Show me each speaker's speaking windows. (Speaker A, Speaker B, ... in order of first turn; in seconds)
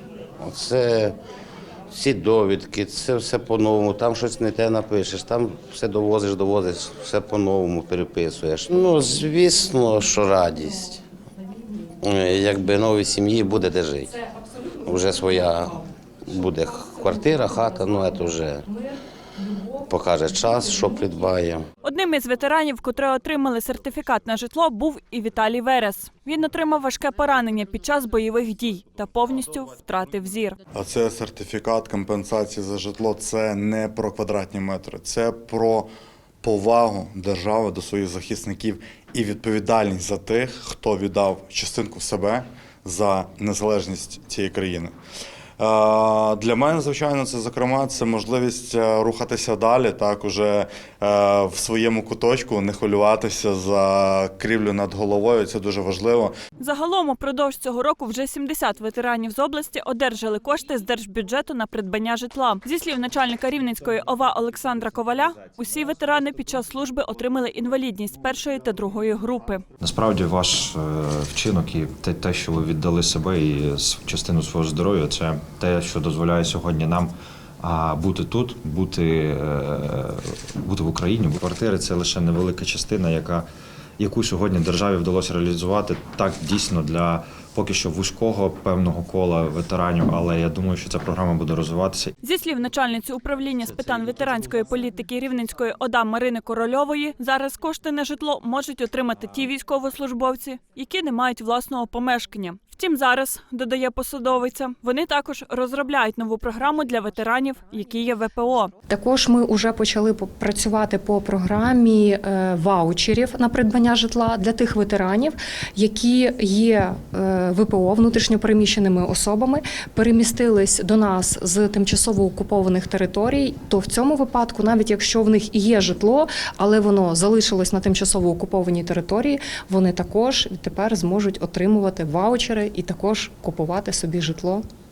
Speaker A: 0.4-1.1, 1.9-11.0, 12.0-14.1, 14.8-18.6, 19.8-21.6
Speaker B: 21.8-30.6, 56.6-69.6, 92.2-108.7
Speaker C: 30.7-35.9, 36.4-44.9, 45.6-56.3
Speaker D: 69.8-83.5, 84.0-92.1
Speaker E: 108.9-134.6